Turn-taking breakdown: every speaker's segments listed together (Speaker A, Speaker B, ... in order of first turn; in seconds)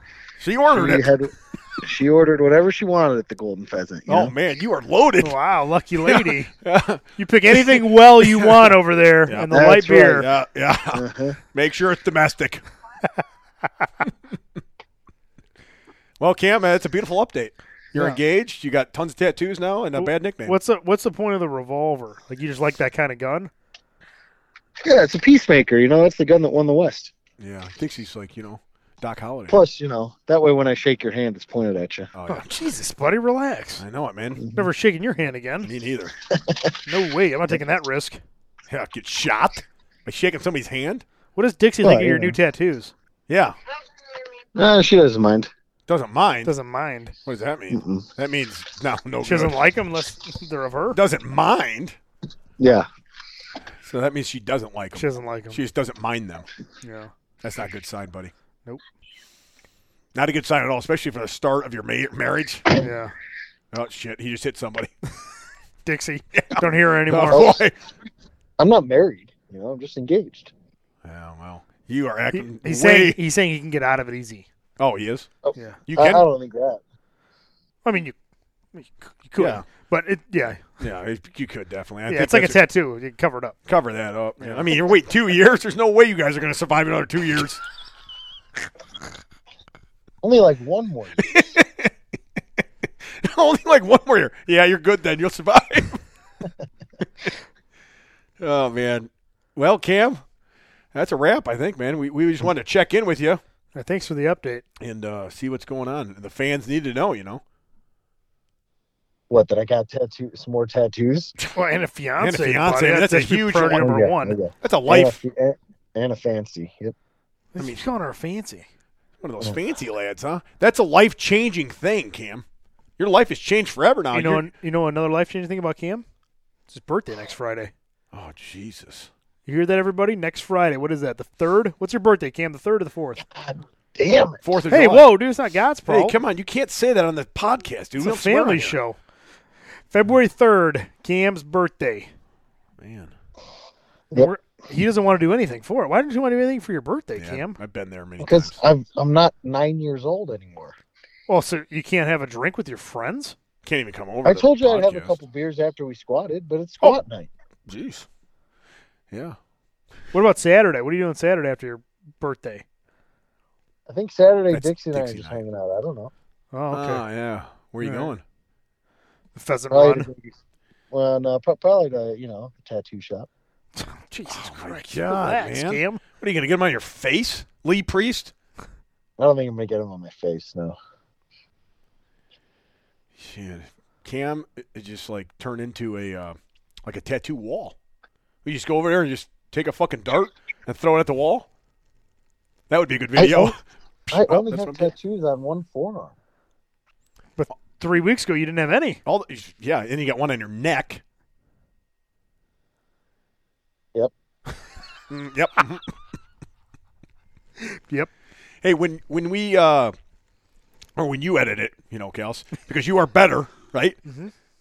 Speaker A: 0.4-1.1, 4.1-5.3, 6.0-9.5, 10.2-12.6, 16.2-20.5, 27.4-29.6, 32.1-32.6, 33.8-34.4, 35.6-36.1, 38.7-41.0, 43.3-43.5, 45.9-46.5, 47.2-49.6, 50.9-52.0, 53.8-56.5, 57.4-58.3, 60.1-62.6, 63.7-64.9, 66.3-67.7, 71.0-73.2, 74.8-75.3, 75.9-76.3, 79.4-79.6, 80.8-82.6, 83.7-87.6, 91.2-91.9, 93.0-96.0, 98.4-100.2, 100.9-103.4, 104.8-107.4, 112.2-113.9, 114.6-115.2, 119.2-122.4, 123.0-124.5, 128.1-129.1, 134.4-135.1, 135.9-138.8, 142.8-143.1, 147.2-148.6, 153.6-155.2, 157.7-158.1, 159.1-159.4, 164.5-165.4, 166.7-168.2, 174.3-178.3, 183.1-187.8, 188.4-191.5, 192.7-194.9, 199.1-201.0, 205.1-205.9, 208.6-209.9, 210.9-214.0
Speaker B: 0.7-4.3, 9.5-10.3, 10.9-11.4, 24.8-27.1, 29.5-32.1, 34.4-34.7, 36.3-36.7, 41.8-42.4, 44.5-45.5, 47.7-48.0, 52.6-52.9, 67.2-67.6, 68.6-70.5, 75.5-76.8, 90.2-91.3, 109.3-111.3, 113.7-116.9, 133.3-134.4, 148.2-150.8, 154.2-157.3, 163.9-166.1, 169.7-170.3, 170.9-173.3, 179.2-180.8, 193.2-193.6, 194.1-196.1
Speaker C: 5.2-6.5, 7.2-10.3, 19.9-23.5, 32.3-33.8, 34.5-35.7, 36.9-38.2, 41.3-42.9, 46.4-47.1, 49.2-51.0, 54.9-55.6, 56.8-57.1, 62.8-63.1, 65.8-67.6, 72.3-74.5, 77.8-78.2, 78.7-80.8, 82.1-83.6, 84.4-84.7, 103.7-104.6, 111.4-114.4, 117.5-118.6, 124.1-126.0, 126.7-127.7, 129.4-133.2, 134.7-136.2, 138.0-139.0, 139.9-142.1, 144.1-147.6, 151.3-153.3, 160.1-162.6, 166.5-167.0, 167.8-168.1, 169.3-170.1, 173.8-176.0, 197.4-199.0, 207.6-208.1, 214.1-214.3